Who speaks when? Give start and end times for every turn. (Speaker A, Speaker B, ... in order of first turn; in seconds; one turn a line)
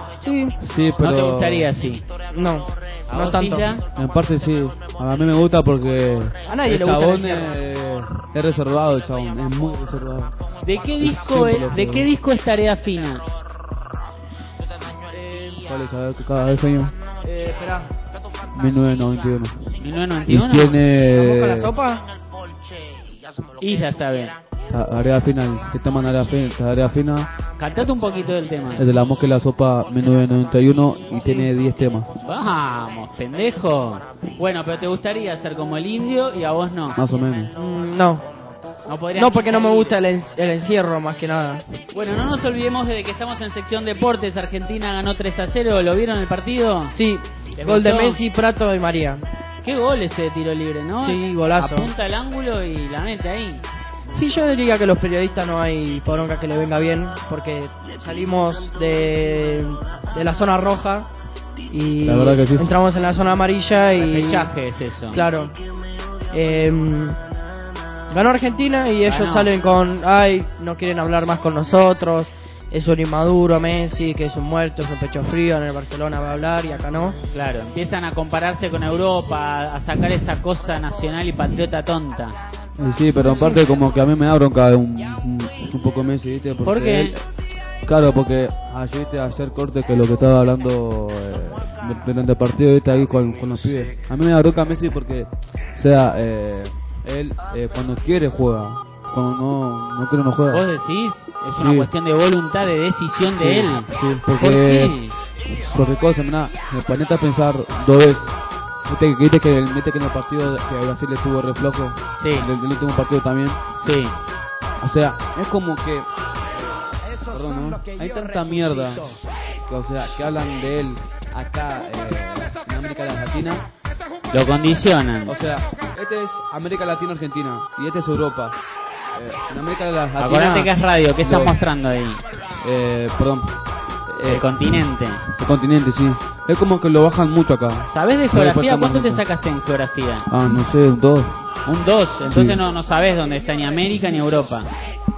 Speaker A: 0.2-0.6
Speaker B: 0.6-1.7
Speaker C: 1.0-2.0
Speaker A: 2.3-3.7
Speaker C: 3.1-3.8
Speaker B: 3.9-10.3
Speaker A: 6.5-7.5
Speaker C: 10.6-13.2
Speaker B: 11.0-12.1
Speaker A: 15.1-15.6
Speaker B: 15.6-16.9
Speaker A: 17.2-17.9
Speaker B: 18.5-19.7
Speaker C: 19.8-20.8
Speaker B: 20.3-21.7
Speaker A: 21.1-22.0
Speaker C: 23.6-24.4
Speaker B: 24.7-27.3
Speaker C: 27.6-28.9
Speaker B: 28.8-32.1
Speaker C: 32.2-37.0
Speaker B: 37.0-37.5
Speaker A: 37.5-38.2
Speaker C: 38.9-40.0
Speaker A: 39.1-41.6
Speaker C: 41.9-47.0
Speaker A: 46.9-49.2
Speaker C: 47.5-48.2
Speaker C: 49.6-53.6
Speaker A: 51.0-51.9
Speaker A: 54.1-61.1
Speaker A: 61.7-64.5
Speaker B: 62.0-62.7
Speaker C: 64.0-65.2
Speaker A: 65.1-65.5
Speaker A: 66.3-67.2
Speaker A: 68.1-77.2
Speaker C: 69.0-69.5
Speaker C: 77.3-82.4
Speaker B: 82.8-87.2
Speaker C: 86.6-87.2
Speaker B: 87.8-100.6
Speaker C: 100.5-105.2
Speaker B: 101.5-101.9
Speaker B: 103.3-108.3
Speaker B: 108.8-113.6
Speaker C: 112.2-112.5
Speaker C: 113.8-114.1
Speaker B: 114.8-116.7
Speaker B: 117.2-123.6
Speaker C: 124.3-125.3
Speaker B: 125.2-128.6
Speaker B: 129.1-131.6
Speaker C: 130.2-132.2
Speaker B: 132.6-133.5
Speaker B: 134.1-139.2
Speaker C: 134.2-135.3
Speaker C: 137.9-140.3
Speaker B: 140.3-141.4
Speaker C: 141.7-144.7
Speaker B: 142.3-142.6